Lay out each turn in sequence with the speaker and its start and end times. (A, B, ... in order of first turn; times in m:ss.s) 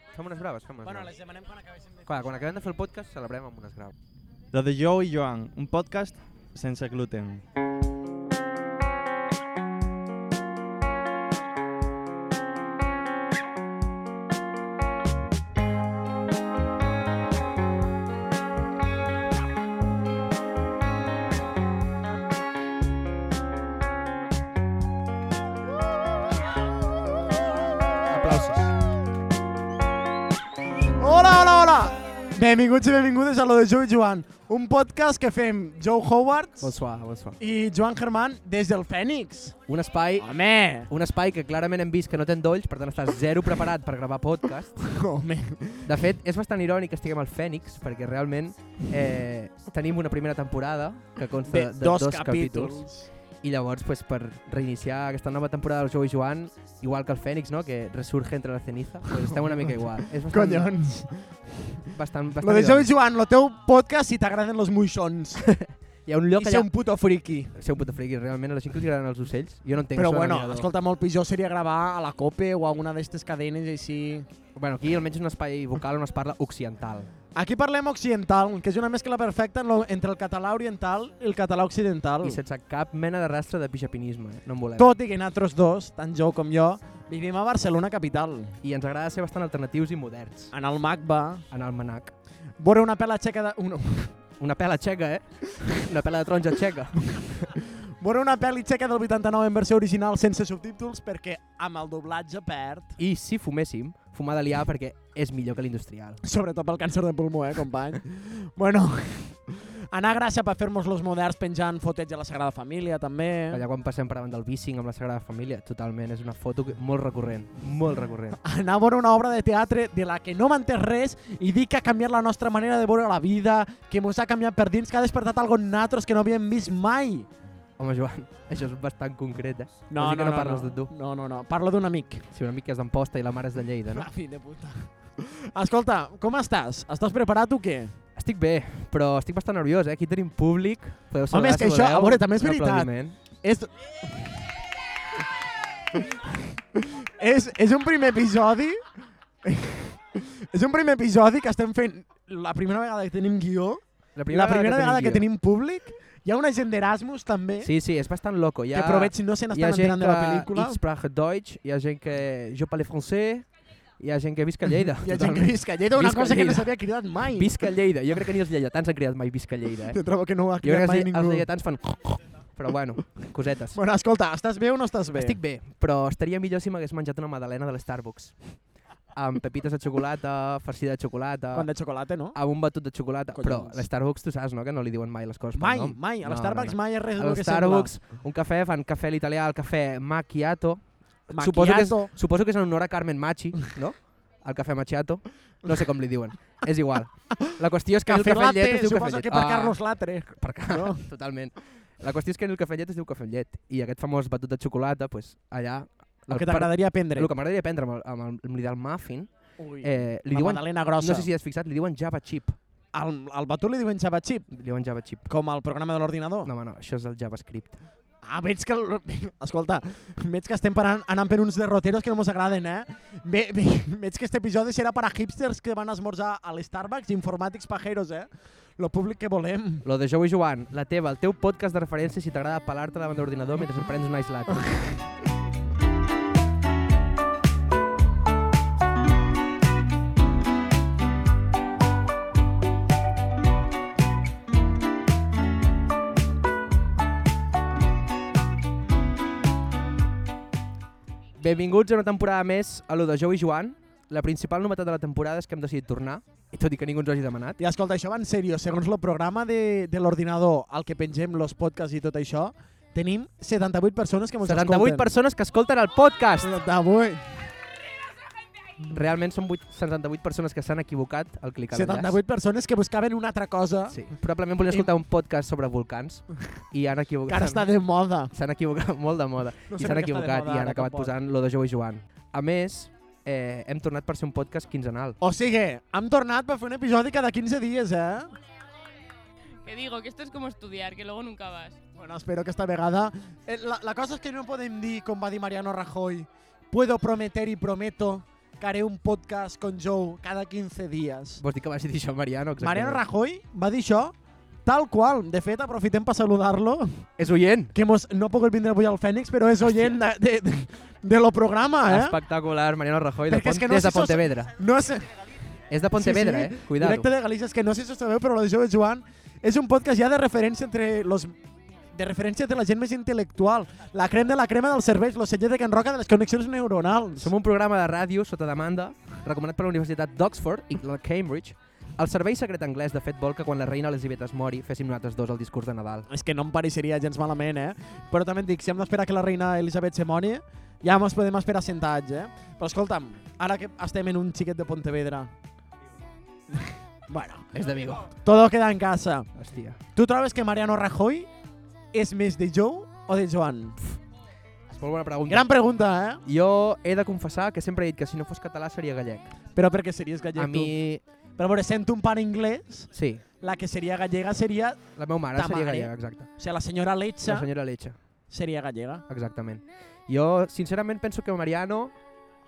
0:00.1-0:01.1 A
0:00.8-0:02.4 B
0:02.1-0:03.9 A
0:04.5-0:07.4 C
0:28.1-0:28.7 A
0:31.0-0:36.7 B
0:36.6-0:37.4 A
0:37.4-0:39.6 B
0:39.7-0:40.3 A
0:40.2-0:40.9 B
0:40.9-0:44.8 A
0:44.8-0:46.0 B
0:45.8-0:52.8 A
0:51.4-0:53.1 B
0:53.4-1:00.7 A
0:59.5-1:01.9 B
1:01.9-1:02.9 A
1:02.4-1:05.5 B
1:05.4-1:06.7 A
1:06.4-1:07.5 B
1:07.5-1:10.7 A
1:09.9-1:14.3 B
1:14.6-1:17.1 A
1:17.3-1:22.4 B
1:22.2-1:24.9 A
1:24.8-1:28.6 B
1:28.6-1:30.5 A
1:30.5-1:31.4 B
1:31.5-1:32.1 A
1:32.6-1:34.2 B
1:34.4-1:37.5 A
1:37.2-1:43.0 B
1:43.0-1:46.2 A
1:46.2-1:53.6 B
1:53.5-1:58.4 A
1:58.4-2:07.3 B
2:07.8-2:10.9 A
2:09.9-2:12.2 B
2:12.3-2:14.1 A
2:13.9-2:17.9 B
2:18.2-2:23.2 A
2:21.3-2:24.4 B
2:25.9-2:28.8 B
2:29.4-2:37.7 B
2:34.2-2:35.3 A
2:37.6-2:43.4 A
2:38.7-2:40.8 B
2:44.0-2:46.7 A
2:45.0-2:47.6 B
2:47.3-2:50.0 A
2:49.9-2:51.5 B
2:50.6-2:53.8 A
2:53.7-2:55.4 B
2:55.1-2:58.3 A
2:59.1-3:01.7 A
3:01.5-3:02.4 B
3:02.3-3:29.3 A
3:03.3-3:03.8 B
3:05.5-3:07.9 B
3:11.3-3:12.1 B
3:18.0-3:21.1 B
3:26.3-3:27.3 B
3:29.6-3:31.3 B
3:29.8-3:32.6 A
3:32.9-3:34.5 B
3:34.5-3:35.3 A
3:35.3-3:36.5 B
3:36.4-3:37.8 A
3:38.2-3:49.8 B
3:49.8-3:54.9 A
4:11.4-4:17.6 A
4:17.6-4:25.1 B
4:24.4-4:26.5 A
4:26.4-4:27.5 B
4:28.9-4:32.2 A
4:31.7-4:34.0 B
4:33.9-4:37.7 A
4:37.3-4:38.3 B
4:38.3-4:45.2 A
4:39.7-4:41.1 B
4:45.2-4:48.3 B
4:49.6-4:51.8 D
4:52.0-5:01.4 B
5:01.4-5:03.0 A
5:02.6-5:04.1 B
5:04.6-5:07.0 B
5:07.2-5:07.7 A
5:07.7-5:12.2 B
5:09.6-5:10.0 A
5:11.8-5:14.5 A
5:13.3-5:15.3 B
5:15.7-5:17.1 A
5:15.9-5:21.3 B
5:21.9-5:27.3 B
5:27.2-5:36.1 A
5:36.1-5:45.3 B
5:46.5-5:47.5 B
5:47.5-5:48.1 A
5:48.1-5:49.3 B
5:49.4-5:49.8 A
5:49.9-5:51.3 B
5:51.9-5:53.8 B
5:54.7-5:55.5 A
5:55.3-5:56.2 B
5:56.2-5:59.3 A
5:59.5-6:00.7 B
6:00.4-6:01.0 A
6:01.4-6:07.5 B
6:02.9-6:03.2 A
6:05.0-6:06.3 A
6:07.2-6:07.9 A
6:08.3-6:09.0 B
6:09.1-6:11.9 A